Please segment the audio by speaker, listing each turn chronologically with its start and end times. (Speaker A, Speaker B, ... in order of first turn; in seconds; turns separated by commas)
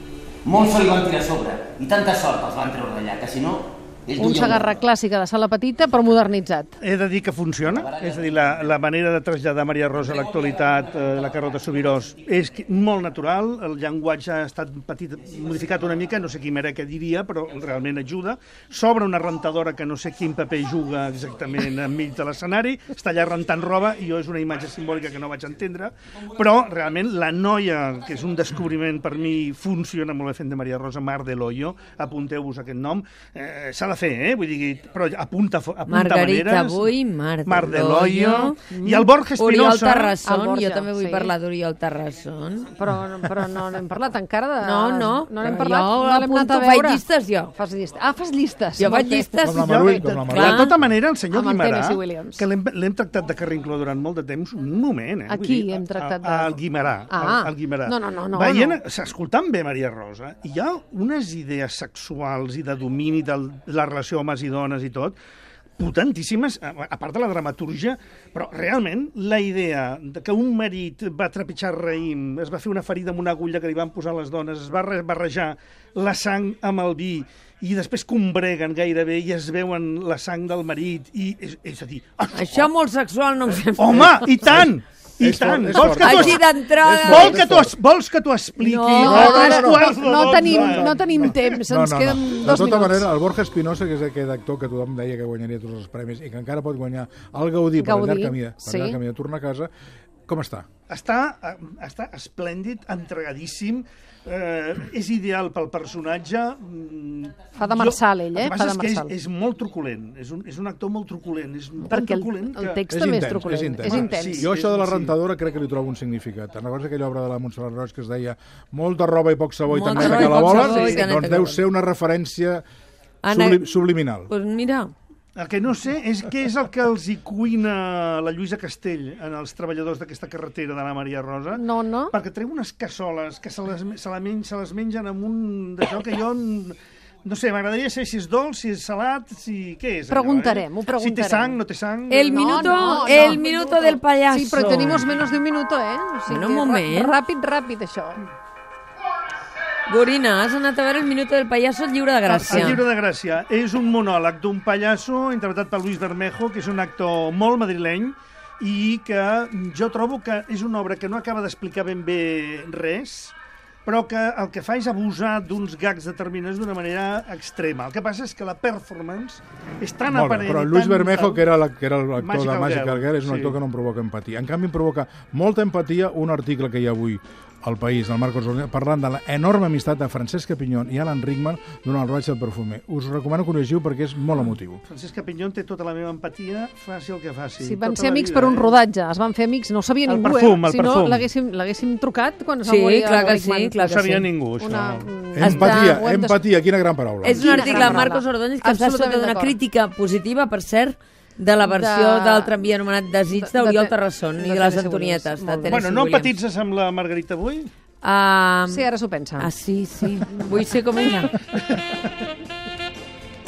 Speaker A: 0.5-4.7, Speaker B: 4.2-6.8, Speaker C: 6.8-36.9, Speaker D: 35.9-38.7, Speaker C: 37.5-40.2, Speaker B: 38.7-39.1, Speaker D: 39.3-42.7, Speaker B: 40.2-41.3, Speaker B: 42.7-47.0, Speaker D: 44.6-47.5, Speaker B: 47.5-50.2, Speaker D: 48.8-50.8, Speaker E: 49.4-50.8, Speaker C: 49.5-65.2, Speaker B: 51.3-52.5, Speaker B: 55.3-58.8, Speaker C: 65.8-82.7, Speaker D: 82.3-84.7, Speaker C: 83.7-91.6, Speaker E: 84.5-87.8, Speaker D: 85.7-87.6, Speaker D: 88.6-89.7, Speaker B: 89.0-93.1, Speaker E: 89.0-99.7, Speaker B: 97.8-99.0, Speaker E: 100.3-100.7, Speaker C: 100.9-112.8, Speaker B: 107.6-109.1, Speaker B: 111.8-114.5, Speaker E: 112.9-122.6, Speaker C: 113.9-115.1, Speaker D: 119.7-121.6, Speaker B: 120.0-121.2, Speaker D: 123.2-124.9, Speaker E: 123.3-124.3, Speaker C: 125.3-143.4, Speaker B: 131.6-132.2, Speaker B: 140.1-141.6, Speaker D: 142.1-145.1, Speaker B: 142.1-148.2, Speaker D: 146.3-147.2, Speaker D: 149.9-152.8, Speaker C: 152.3-163.3, Speaker C: 163.9-171.5, Speaker E: 170.1-184.8, Speaker C: 172.2-173.6, Speaker C: 184.9-188.8, Speaker B: 187.6-196.4, Speaker C: 190.1-191.3, Speaker D: 192.6-194.3, Speaker C: 193.9-195.7, Speaker E: 195.3-198.0, Speaker D: 195.4-195.9, Speaker D: 197.2-206.4, Speaker B: 197.3-199.6, Speaker B: 201.6-202.7, Speaker B: 203.3-205.9, Speaker C: 205.7-207.7, Speaker D: 208.0-211.4, Speaker B: 208.7-209.5, Speaker B: 210.2-210.6